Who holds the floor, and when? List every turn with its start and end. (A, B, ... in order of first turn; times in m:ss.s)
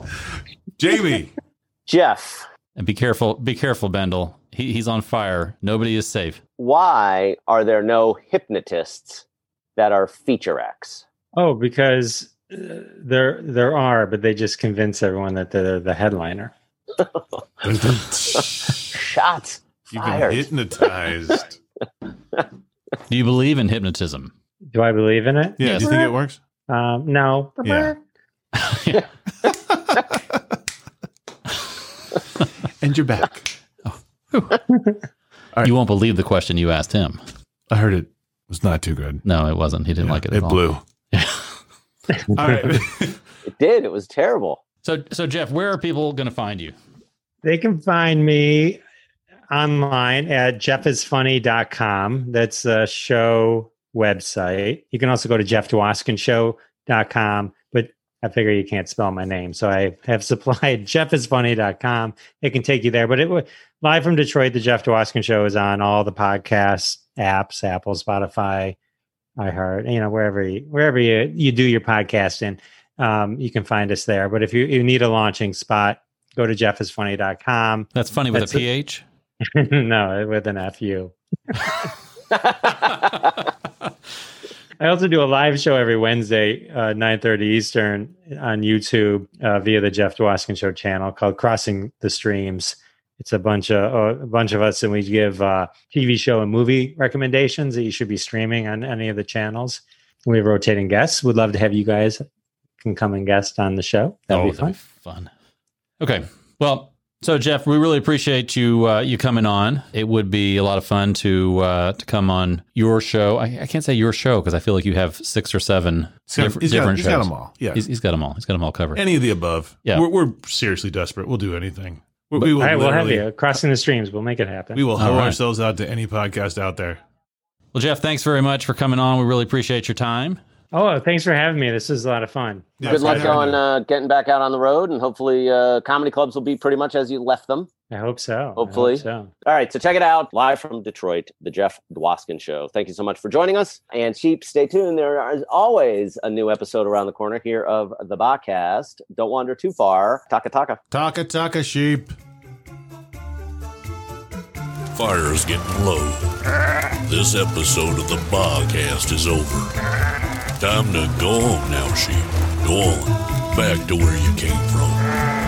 0:00.3-0:01.3 A
0:01.9-0:02.4 B
0:02.8-0:06.4 C
0:06.6-0:09.2 B
0:09.8-0:11.0 B
0:11.4-0:16.5 D
0:17.6-0:18.9 A
0:18.9-0:20.5 B
0:19.9-0:21.6 A
0:23.1-0:24.3 C
0:24.7-0:26.1 D
0:25.6-0:26.4 A
0:25.6-0:25.9 C
0:26.7-0:28.0 D
0:27.6-0:27.9 A
0:28.5-0:29.1 C
0:29.4-0:30.4 A
0:32.8-0:33.5 A
0:33.9-0:34.6 C
0:35.6-0:37.2 C
0:37.7-0:39.2 A
0:39.2-0:41.6 C
0:40.0-0:40.8 A
0:42.3-0:43.2 A
0:43.4-0:44.6 B
0:44.8-0:46.8 C
0:47.4-0:48.8 D
0:49.5-1:08.8 D
1:09.4-1:18.6 D
1:17.9-1:19.0 C
1:19.5-1:21.8 D
1:24.8-1:42.2 D
1:42.8-1:44.8 D
1:44.3-1:45.3 C
1:46.0-1:59.0 C
1:56.3-1:57.8 A
1:59.0-2:03.3 A
2:02.4-2:04.9 D
2:04.8-2:07.0 A
2:05.0-2:05.4 C
2:07.7-2:10.4 C
2:10.7-2:13.4 D
2:12.8-2:13.6 A
2:12.8-2:17.7 B
2:17.9-2:19.3 D
2:18.6-2:30.8 B
2:30.9-2:32.1 A
2:34.9-2:36.3 E
2:37.1-2:39.7 E
2:40.6-2:45.0 E